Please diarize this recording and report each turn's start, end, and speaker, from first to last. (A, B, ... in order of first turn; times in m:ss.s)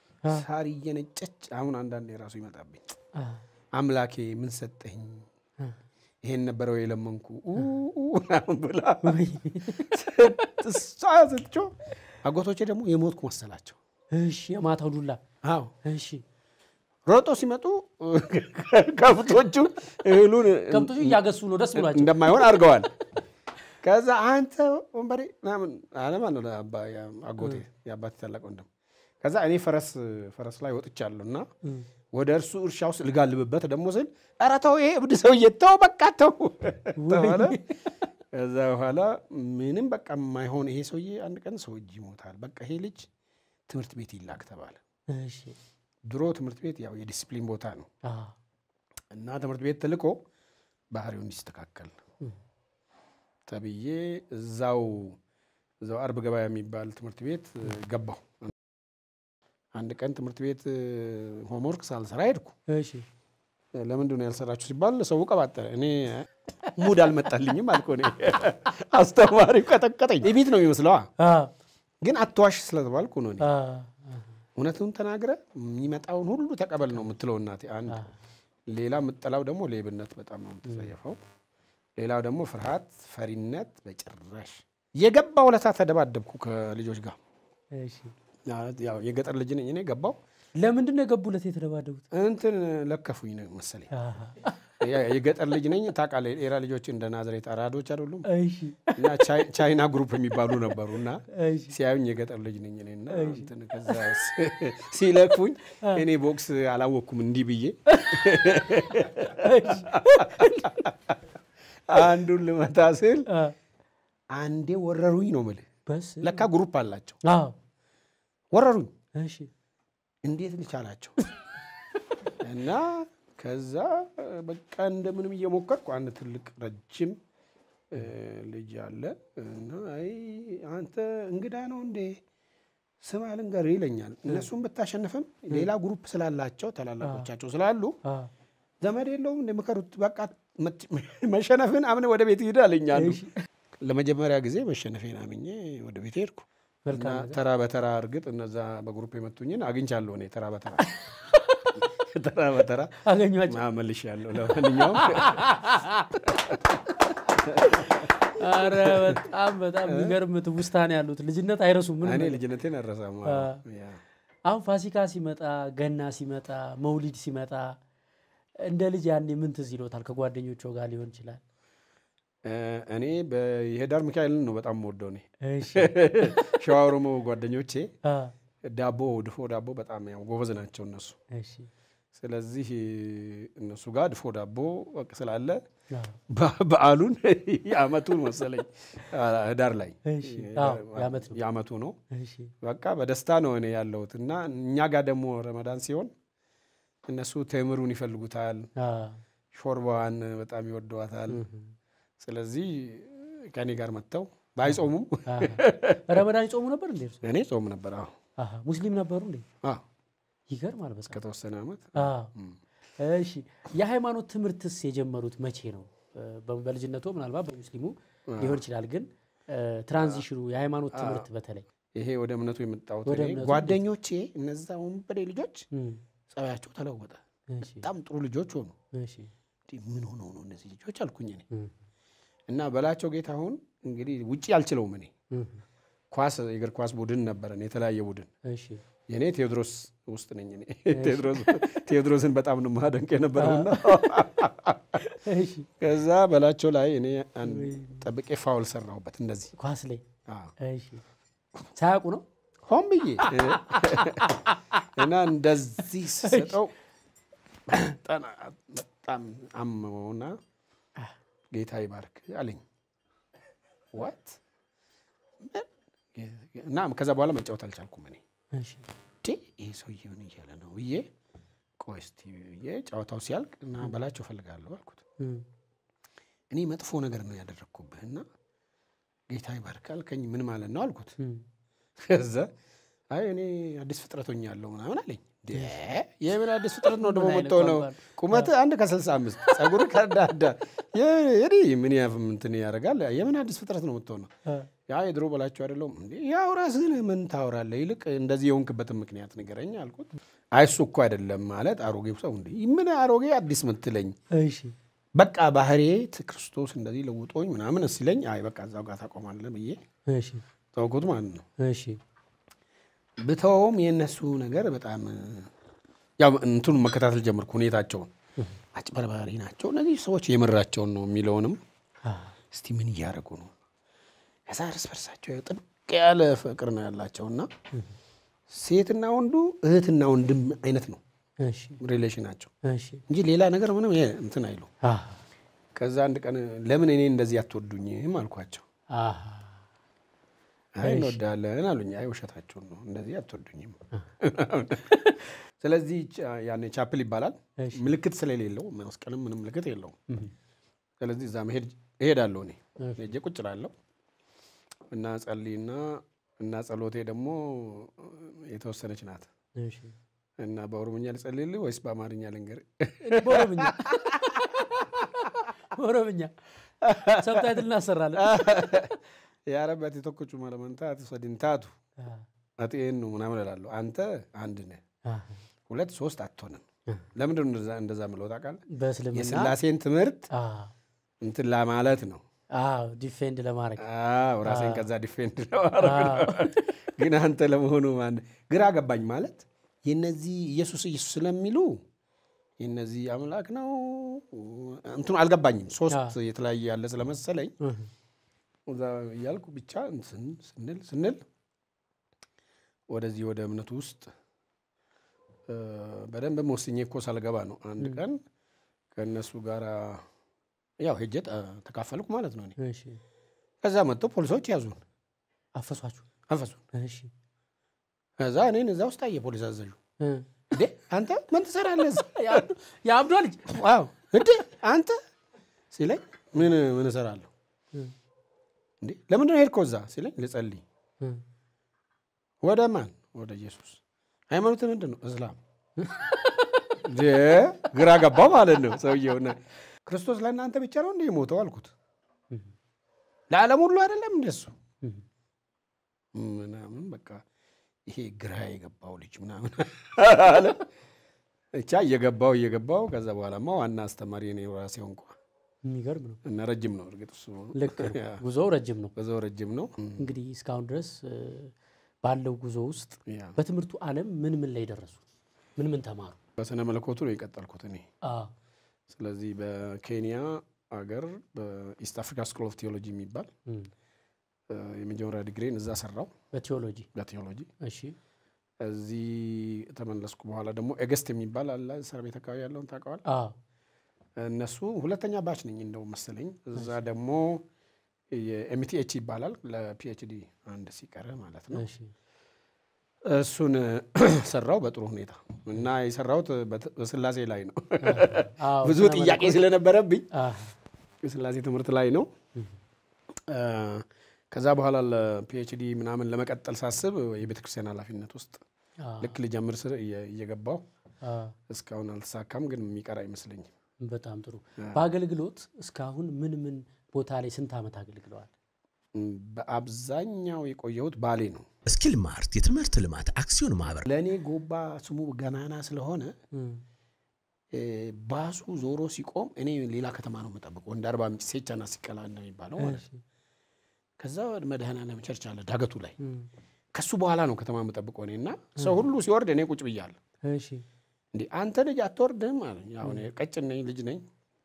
0:00.3-0:02.8 A
0:03.2-0:03.4 B
0:03.8-0:05.3 A
0:06.2-0:09.2 A
0:09.0-0:10.1 B
0:09.8-0:13.8 A
0:14.1-0:15.2 B
0:15.4-0:15.7 A
0:15.8-0:16.2 B
0:17.1-0:21.2 A
0:20.7-0:22.7 B
0:21.7-0:22.9 A
0:23.8-0:28.7 A
0:29.2-0:31.5 A
0:31.6-0:31.9 B
0:32.1-0:37.8 A
0:37.0-0:37.6 B
0:38.3-0:43.1 A
0:43.7-0:44.8 A
0:45.1-0:45.6 B
0:46.1-0:47.9 A
0:48.0-0:48.4 B
0:49.1-0:50.2 A
0:50.9-0:52.0 A
0:53.5-0:55.2 A
0:55.8-0:58.5 A
0:59.8-1:02.6 A
1:02.7-1:03.1 B
1:03.8-1:11.1 A
1:11.2-1:11.5 B
1:12.0-1:13.5 A
1:13.4-1:14.4 B
1:14.6-1:18.1 A
1:18.7-1:21.2 A
1:22.0-1:27.2 A
1:27.7-1:28.1 B
1:28.5-1:30.2 A
1:30.6-1:32.1 B
1:32.1-1:33.9 A
1:33.9-1:34.6 B
1:34.8-1:38.3 A
1:38.3-1:39.2 B
1:38.9-1:50.9 A
1:41.3-1:41.7 B
1:43.1-1:44.2 B
1:47.9-1:48.4 B
1:49.0-1:50.8 B
1:51.9-1:53.3 A
1:53.3-1:53.6 B
1:54.3-1:55.7 A
1:55.9-1:56.5 B
1:56.2-1:57.2 A
1:57.2-1:57.6 B
1:58.5-1:58.9 A
1:59.2-1:59.5 B
2:00.2-2:01.2 A
2:02.4-2:07.2 A
2:07.9-2:12.2 A
2:13.0-2:18.0 A
2:17.0-2:17.3 B
2:18.0-2:18.3 B
2:18.8-2:23.2 A
2:22.9-2:23.3 B
2:23.8-2:30.9 A
2:26.8-2:27.4 B
2:31.0-2:31.8 B
2:31.8-2:35.5 A
2:33.0-2:33.6 B
2:34.4-2:36.3 B
2:36.2-2:36.6 A
2:36.9-2:42.4 B
2:37.4-2:39.2 A
2:39.9-2:40.2 A
2:42.0-2:44.0 A
2:43.3-2:43.6 B
2:44.5-2:47.8 B
2:48.6-2:51.4 B
2:52.4-2:57.9 A
2:55.4-2:56.6 B
2:58.0-2:58.3 B
2:58.6-3:01.2 A
3:01.3-3:01.7 B
3:02.2-3:05.6 A
3:05.9-3:06.2 B
3:06.3-3:12.0 A
3:10.1-3:11.4 B
3:12.1-3:12.5 B
3:12.6-3:16.1 A
3:17.1-3:18.7 A
3:18.8-3:19.2 B
3:19.5-3:21.4 A
3:21.3-3:21.8 B
3:22.2-3:26.2 A
3:24.7-3:27.2 B
3:27.2-3:28.1 A
3:28.4-3:29.5 B
3:30.5-3:31.2 B
3:31.1-3:32.6 A
3:32.0-3:32.3 B
3:33.0-3:41.6 B
3:38.3-3:38.6 A
3:40.9-3:41.3 A
3:42.0-3:45.7 A
3:43.1-3:43.8 B
3:45.7-3:46.0 B
3:46.3-3:48.8 A
3:47.5-3:47.9 B
3:48.9-3:49.3 B
3:49.7-3:51.5 A
3:52.5-3:55.1 A
3:55.3-3:55.6 B
3:56.1-3:58.3 A
3:58.5-3:58.8 B
3:59.1-4:05.0 A
4:00.9-4:01.8 B
4:03.4-4:04.3 B
4:05.0-4:05.7 B
4:05.8-4:09.6 A
4:07.5-4:08.0 B
4:09.6-4:10.0 B
4:10.3-4:10.5 A
4:10.6-4:11.0 B
4:11.7-4:12.2 B
4:12.7-4:16.7 A
4:13.2-4:15.1 B
4:16.2-4:16.6 B
4:17.7-4:20.4 A
4:21.5-4:22.6 A
4:23.9-4:24.4 A
4:25.4-4:28.2 A
4:28.5-4:28.9 B
4:29.2-4:31.1 A
4:31.8-4:35.0 A
4:35.2-4:35.5 B
4:36.5-4:38.3 A
4:39.3-4:41.2 A
4:41.2-4:41.4 B
4:42.0-4:42.5 A
4:43.1-4:54.3 A
4:45.5-4:45.8 B
4:46.8-4:48.5 B
4:54.9-5:04.1 A
5:04.3-5:04.8 B
5:05.2-5:09.8 A
5:10.1-5:10.4 B
5:10.8-5:11.4 A
5:11.6-5:12.0 B
5:13.2-5:15.5 A
5:16.2-5:18.1 A
5:18.7-5:21.6 A
5:22.0-5:22.3 B
5:22.5-5:23.5 A
5:24.5-5:27.5 A
5:28.5-5:31.0 A
5:31.4-5:31.8 B
5:31.8-5:32.5 A
5:32.6-5:33.0 B
5:33.1-5:34.7 A
5:34.8-5:35.2 B
5:35.8-5:38.6 A
5:38.9-5:39.6 B
5:40.8-5:50.0 A
5:40.8-5:41.2 B
5:47.6-5:47.9 B
5:51.0-5:53.7 A
5:52.8-5:53.1 B
5:54.9-5:59.3 A
5:59.6-5:59.9 B
6:00.4-6:04.4 A
6:03.0-6:06.4 B
6:06.8-6:07.6 A
6:07.0-6:09.0 B
6:08.2-6:09.0 A
6:09.5-6:11.8 A
6:12.0-6:12.2 B
6:12.6-6:14.8 A
6:15.0-6:15.4 B
6:15.7-6:16.6 A
6:17.2-6:20.3 A
6:18.7-6:19.6 B
6:20.3-6:20.7 B
6:21.2-6:22.2 A
6:22.5-6:23.8 B
6:23.8-6:31.8 A
6:24.4-6:24.9 B
6:25.8-6:26.6 B
6:32.6-6:37.6 A
6:35.9-6:36.2 B
6:37.6-6:37.9 B
6:38.7-6:41.2 A
6:42.9-6:44.1 A
6:45.5-6:48.2 A
6:47.8-6:48.0 B
6:49.0-6:50.1 A
6:50.8-6:52.6 A
6:52.6-6:53.0 B
6:53.6-6:54.8 A
6:55.6-6:56.1 B
6:56.3-6:56.6 A
6:56.7-6:57.1 B
6:58.2-6:59.8 A
7:00.0-7:00.3 B
7:00.5-7:02.4 A
7:02.0-7:03.6 B
7:03.5-7:05.0 A
7:05.7-7:07.3 A
7:08.8-7:10.6 A
7:12.4-7:15.4 A
7:15.8-7:16.7 B
7:16.8-7:21.7 A
7:23.3-7:24.5 A
7:26.1-7:27.2 A
7:27.9-7:30.7 A
7:31.6-7:35.2 A
7:35.6-7:36.2 B
7:36.2-7:38.2 A
7:37.5-7:38.9 B
7:39.0-7:40.0 A
7:40.0-7:45.0 B
7:43.1-7:43.4 A
7:45.6-7:46.2 B
7:46.4-7:47.9 A
7:48.0-7:48.3 B
7:48.9-7:53.3 A
7:54.5-7:56.1 A
7:56.3-7:56.9 B
7:57.0-7:57.5 A
7:57.6-7:58.0 B
7:58.6-8:03.0 A
8:03.1-8:03.4 B
8:04.2-8:07.4 A
8:06.6-8:06.8 B
8:08.1-8:11.7 A
8:11.5-8:11.9 B
8:13.0-8:20.1 A
8:17.8-8:19.5 B
8:20.1-8:20.6 B
8:21.0-8:22.1 A
8:23.3-8:28.4 A
8:28.8-8:29.2 B
8:29.0-8:30.6 A
8:31.0-8:31.4 B
8:31.5-8:33.5 A
8:33.8-8:38.3 B
8:34.6-8:34.8 A
8:39.0-8:41.5 A
8:41.7-8:43.9 C
8:43.9-8:46.2 A
8:46.3-8:46.6 B
8:47.5-8:52.8 A
8:52.6-8:53.0 B
8:54.0-8:56.0 A
8:56.0-8:56.3 B
8:56.8-9:00.0 A
9:00.2-9:00.6 B
9:01.1-9:04.0 A